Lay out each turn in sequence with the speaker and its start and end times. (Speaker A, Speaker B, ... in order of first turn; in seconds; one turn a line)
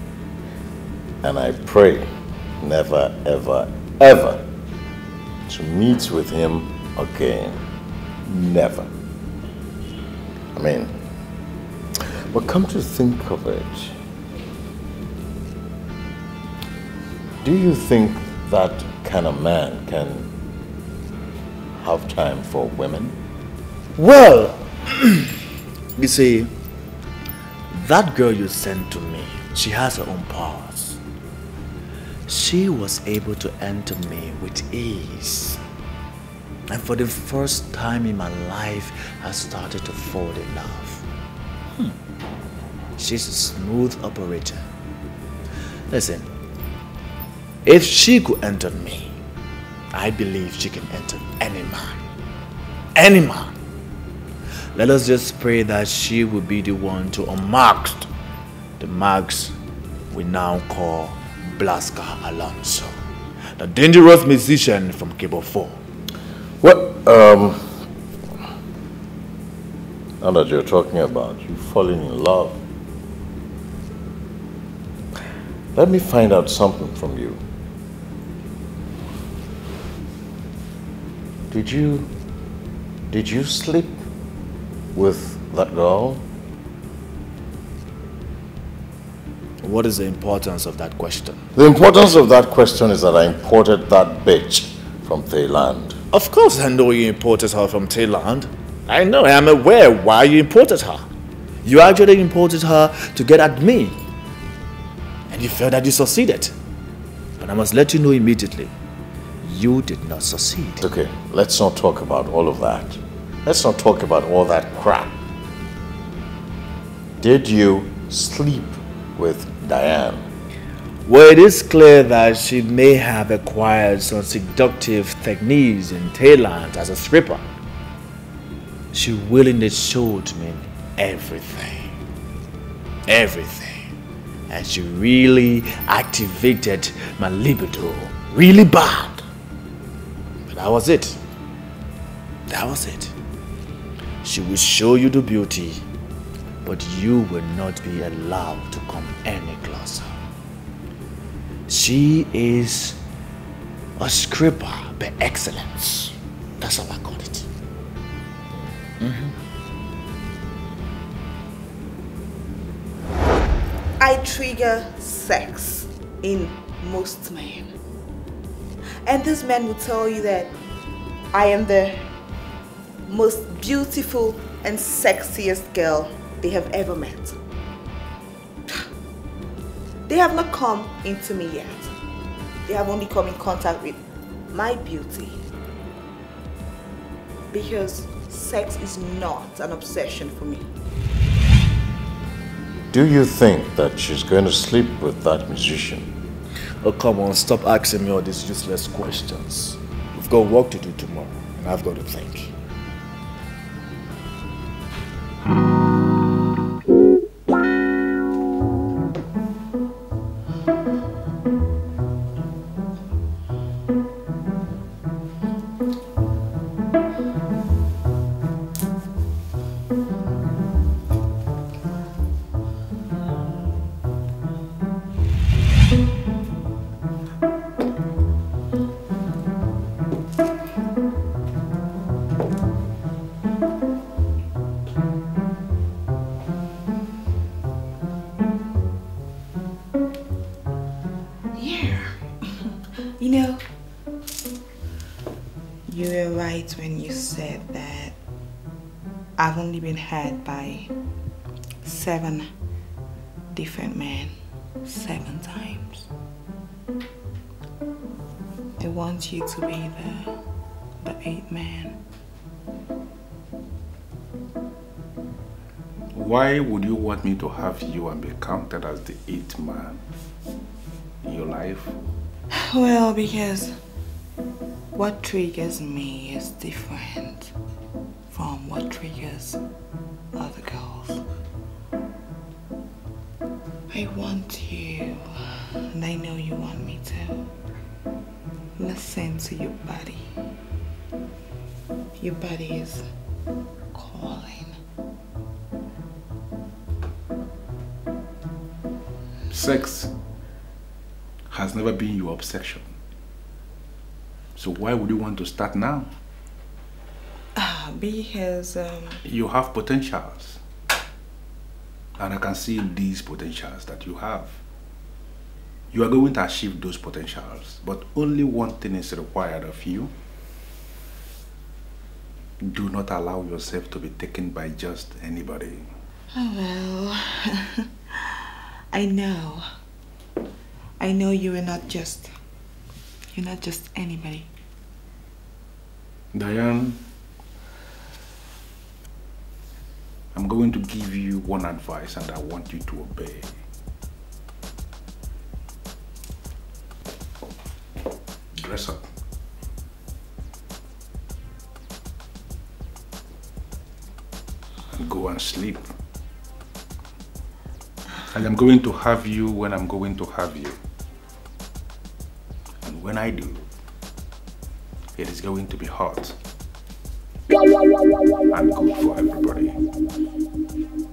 Speaker A: 1.2-4.4
Speaker A: 5.5-7.6
Speaker A: 8.2-8.9
Speaker A: 10.6-11.0
Speaker A: 12.0-14.0
Speaker A: 17.4-20.3
Speaker A: 21.8-23.2
Speaker B: 24.0-25.3
Speaker B: 26.0-26.5
Speaker B: 27.7-31.0
Speaker B: 32.3-35.6
Speaker B: 36.7-41.0
Speaker B: 43.0-44.7
Speaker B: 45.9-46.3
Speaker B: 47.6-49.2
Speaker B: 49.9-52.1
Speaker B: 53.0-53.6
Speaker B: 54.7-58.1
Speaker B: 58.8-59.6
Speaker B: 60.1-63.0
Speaker B: 63.5-65.8
Speaker A: 66.6-67.8
Speaker A: 70.2-72.6
Speaker A: 75.8-77.4
Speaker A: 81.5-82.1
Speaker A: 83.1-84.0
Speaker A: 85.0-86.2
Speaker B: 89.6-91.5
Speaker A: 91.5-96.0
Speaker B: 96.1-101.1
Speaker B: 101.6-104.0
Speaker B: 105.3-106.5
Speaker B: 107.4-108.8
Speaker B: 109.4-110.8
Speaker A: 110.8-115.1
Speaker A: 117.2-120.3
Speaker B: 121.1-127.5
Speaker B: 128.9-132.0
Speaker B: 133.1-133.9
Speaker B: 134.5-139.2
Speaker B: 140.4-141.2
Speaker B: 142.5-143.1
Speaker B: 144.2-145.8
Speaker B: 146.6-150.2
Speaker B: 151.7-153.0
Speaker B: 154.0-157.5
Speaker B: 159.0-159.3
Speaker C: 164.0-167.7
Speaker C: 169.0-170.5
Speaker C: 171.3-172.1
Speaker C: 173.1-177.4
Speaker C: 180.1-181.9
Speaker C: 182.7-184.0
Speaker C: 184.5-185.4
Speaker C: 187.5-190.7
Speaker A: 192.9-196.1
Speaker B: 196.8-202.5
Speaker C: 241.5-243.7
Speaker C: 245.9-248.2
Speaker C: 249.4-250.9
Speaker C: 251.8-252.5
Speaker C: 253.5-254.3
Speaker C: 254.8-256.1
Speaker C: 258.8-260.4
Speaker C: 261.0-262.0
Speaker D: 266.1-270.0
Speaker D: 271.2-271.9
Speaker C: 272.5-273.8
Speaker C: 274.9-277.5
Speaker C: 278.3-279.6
Speaker C: 280.4-281.2
Speaker C: 283.9-285.2
Speaker C: 285.9-287.4
Speaker C: 288.8-290.3
Speaker C: 292.2-293.1
Speaker C: 293.9-294.8
Speaker D: 299.5-300.1
Speaker D: 301.5-302.9
Speaker D: 304.6-306.1
Speaker C: 307.6-309.2
Speaker D: 309.2-310.6
Speaker D: 312.2-314.6
Speaker D: 315.9-320.1
Speaker D: 322.6-325.9
Speaker C: 326.3-329.7
Speaker C: 331.0-332.3
Speaker C: 333.3-334.5
Speaker D: 336.3-337.0
Speaker D: 340.3-343.6
Speaker D: 348.5-349.1
Speaker D: 355.0-355.9
Speaker D: 358.3-360.8
Speaker D: 362.8-363.6
Speaker D: 365.2-366.4
Speaker D: 368.5-369.8